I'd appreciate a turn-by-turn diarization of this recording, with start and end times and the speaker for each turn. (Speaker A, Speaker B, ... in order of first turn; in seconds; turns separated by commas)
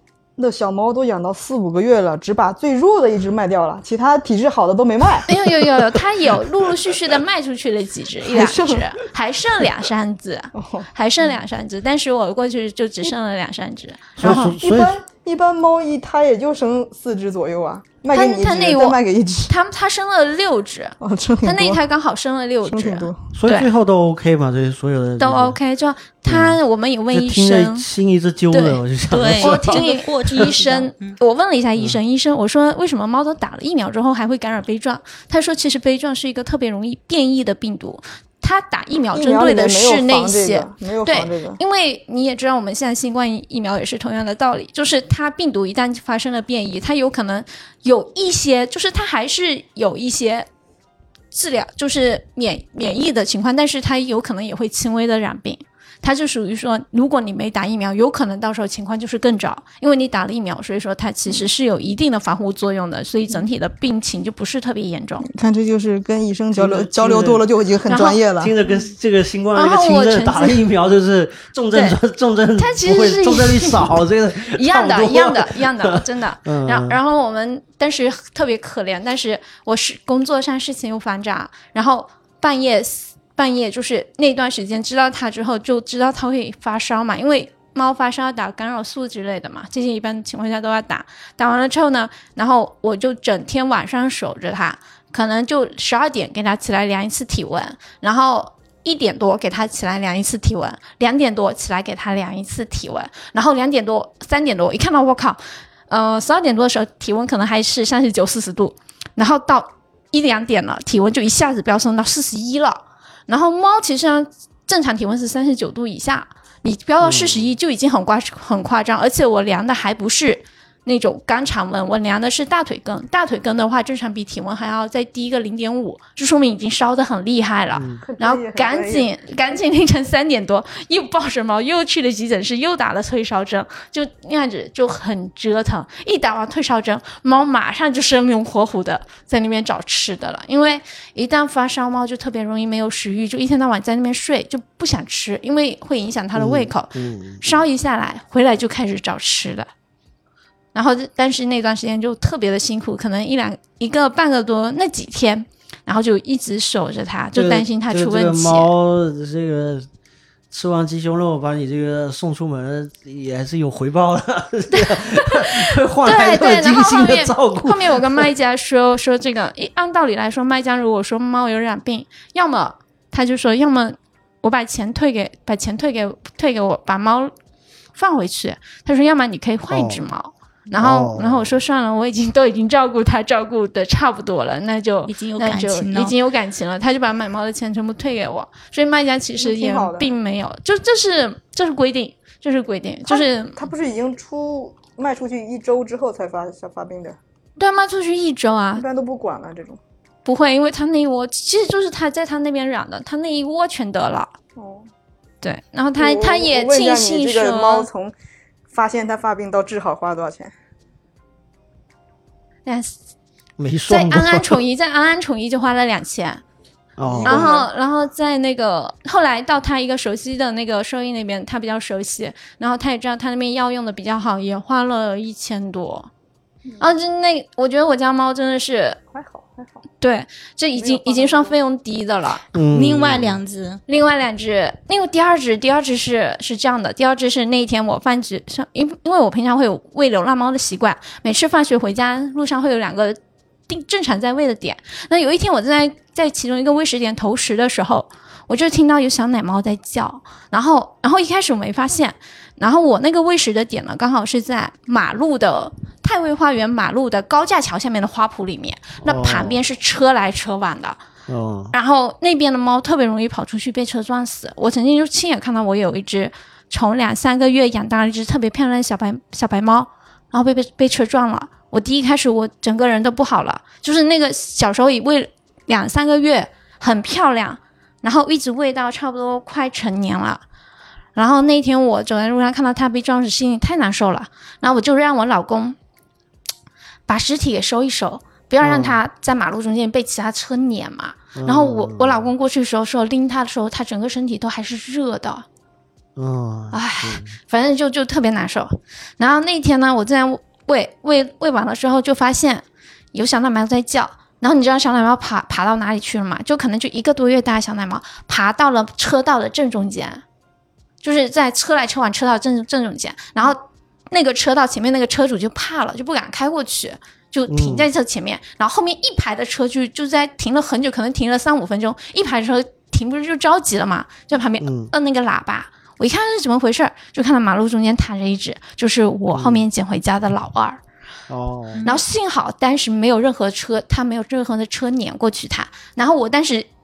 Speaker A: 0.4-5.3, Speaker B: 5.3-14.6, Speaker A: 8.2-8.9, Speaker A: 10.6-10.9, Speaker C: 14.2-15.0, Speaker A: 14.2-19.5, Speaker B: 18.1-23.7, Speaker A: 21.0-21.8, Speaker A: 22.6-23.3, Speaker C: 23.3-25.6, Speaker B: 25.2-27.9, Speaker C: 26.3-26.6, Speaker C: 27.1-30.6, Speaker B: 28.5-50.5, Speaker D: 29.1-31.2, Speaker A: 39.1-41.6, Speaker B: 51.3-65.3, Speaker A: 65.2-68.5, Speaker C: 66.6-67.5, Speaker B: 67.9-68.2, Speaker C: 68.4-77.0, Speaker B: 69.5-70.6, Speaker B: 71.7-72.0, Speaker B: 72.6-149.7, Speaker C: 117.0-117.5, Speaker C: 127.7-128.0, Speaker A: 128.0-129.1, Speaker C: 146.3-147.7, Speaker B: 150.7-158.7, Speaker C: 157.3-159.9, Speaker C: 160.5-168.3, Speaker B: 164.7-177.3, Speaker B: 178.0-193.6, Speaker C: 179.7-180.0, Speaker C: 180.8-181.6, Speaker D: 185.1-186.2, Speaker A: 189.4-190.1, Speaker A: 193.1-197.2, Speaker B: 197.6-198.8, Speaker A: 198.8-199.8, Speaker B: 200.2-204.3, Speaker A: 204.6-204.9, Speaker B: 205.4-207.9, Speaker A: 206.0-208.1, Speaker A: 208.7-210.5, Speaker B: 212.7-213.0, Speaker C: 213.6-214.6, Speaker B: 213.9-216.4, Speaker C: 217.0-217.5, Speaker A: 217.0-217.7, Speaker B: 217.2-226.1, Speaker B: 226.8-229.0, Speaker A: 229.1-229.8, Speaker B: 230.0-232.4, Speaker A: 230.8-231.5, Speaker C: 232.5-233.4, Speaker D: 232.7-233.8, Speaker B: 233.9-261.0, Speaker C: 259.0-259.6, Speaker C: 261.3-261.7, Speaker B: 261.7-280.4, Speaker B: 281.1-285.8, Speaker B: 287.1-295.4, Speaker C: 288.6-289.0, Speaker C: 291.4-292.3, Speaker C: 296.2-297.3, Speaker B: 296.7-310.2, Speaker B: 311.0-330.8, Speaker C: 317.5-317.9, Speaker C: 324.6-324.9, Speaker C: 329.3-329.6, Speaker C: 331.3-331.9, Speaker D: 331.7-332.0, Speaker B: 331.8-336.7